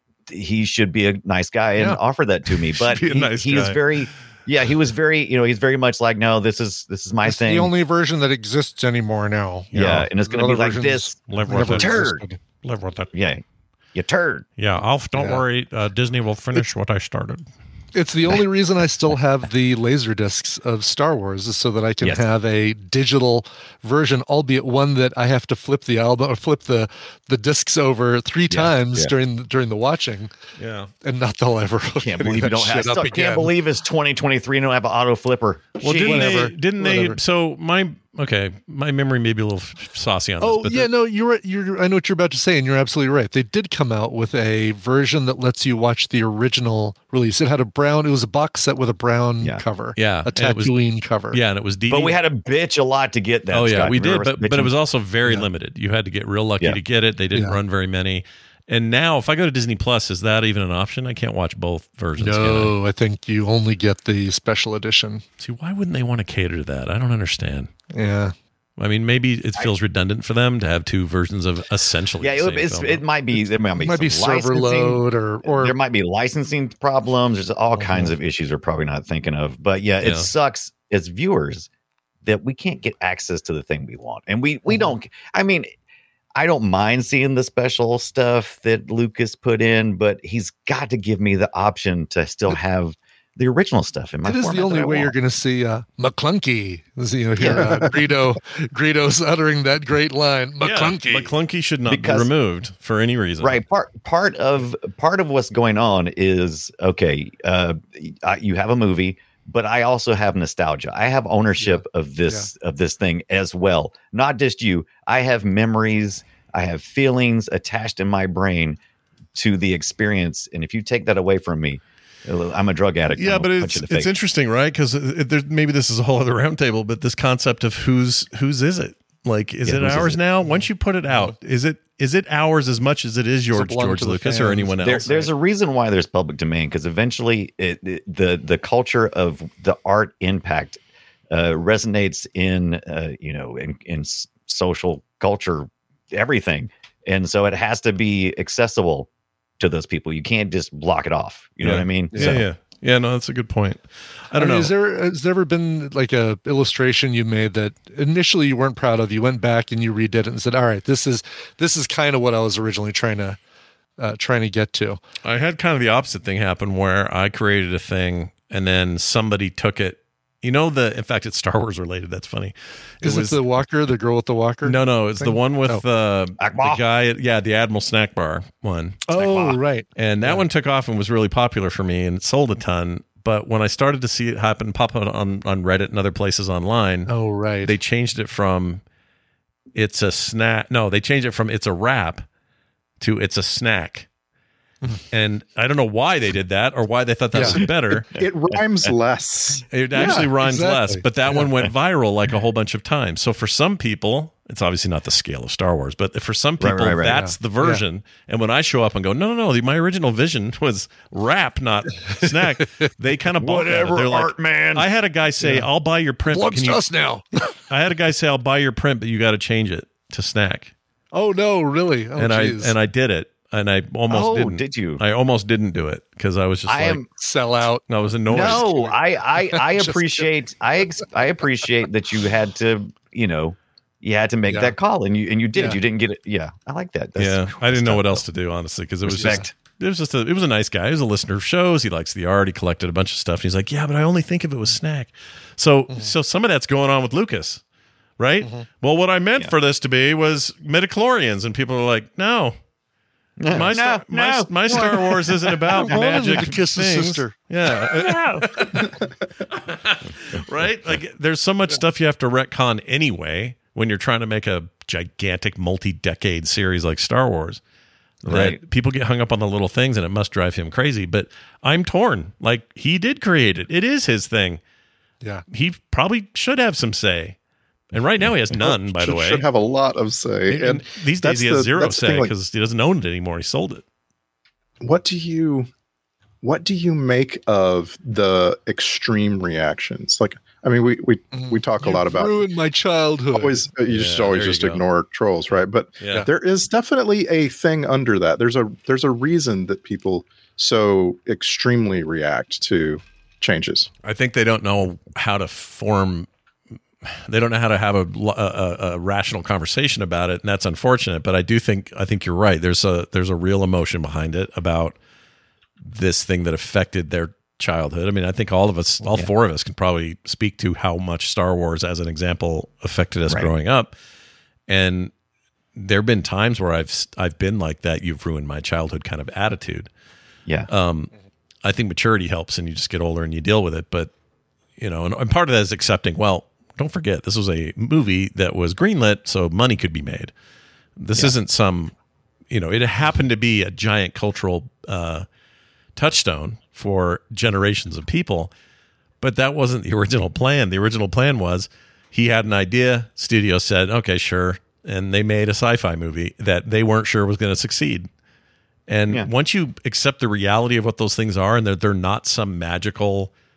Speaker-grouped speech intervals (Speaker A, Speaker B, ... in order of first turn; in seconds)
Speaker A: 0.3-7.7, 9.7-12.2, 13.1-13.4, 13.9-14.4, 28.5-29.1, 32.0-36.4, 51.9-54.7, 72.2-81.7, 82.2-85.7, 86.4-95.1, 97.4-97.9, 101.9-102.3, 103.4-118.8, 119.3-124.1, 129.7-130.2, 134.8-140.8, 141.3-149.1, 149.6-152.5, 176.4-176.8, 179.1-179.6, 206.6-207.3, 213.4-214.9, 224.1-225.0, 226.7-227.1, 228.3-238.2, 239.1-239.5, 253.4-256.0, 268.2-268.6
Speaker B: 2.8-4.0, 9.7-10.1, 11.3-12.1, 12.6-13.1, 14.6-17.4, 30.6-30.9, 35.8-40.9, 50.0-50.8, 51.3-52.2, 53.5-62.7, 65.4-67.7, 68.8-73.0, 80.0-80.3, 100.6-103.6, 123.2-135.3, 151.6-154.7, 165.2-173.6, 174.6-179.1, 180.0-187.1, 187.6-188.8, 189.8-192.3, 193.0-194.1, 195.1-198.1, 199.7-216.8, 217.7-220.7, 222.2-227.0, 227.9-228.7, 237.2-247.6, 248.2-252.6, 253.5-259.0, 259.5-267.6, 268.2-274.6, 275.5-277.4, 277.9-279.4, 280.5-283.8, 293.9-294.8, 296.0-296.3, 304.0-306.3, 307.0-314.9, 315.8-323.9, 324.7-325.1, 325.8-329.9, 330.7-331.1, 331.6-334.1, 334.8-340.3, 341.0-341.9, 342.5-345.2, 346.0-348.5, 349.2-358.1, 358.9-363.3
Speaker C: 7.3-9.7, 10.2-12.4, 15.2-15.4, 17.9-30.3, 31.0-33.5, 36.0-37.2, 40.4-51.4, 62.2-65.2, 67.9-68.3, 73.8-75.8, 77.8-78.1, 84.7-84.9, 94.2-101.3, 111.6-112.5, 133.5-134.8, 152.1-152.4, 154.3-163.4, 164.0-165.0, 173.0-175.8, 179.1-180.4, 187.1-187.7, 197.3-197.6, 199.9-201.4, 207.6-207.8, 216.3-217.5, 221.1-222.7, 227.2-230.3, 234.5-234.7, 239.1-239.5, 248.4-248.7, 255.7-257.4, 257.9-258.8, 291.3-293.6
Speaker D: 198.1-199.7, 278.5-282.3, 284.8-285.7, 286.4-292.5, 293.3-303.9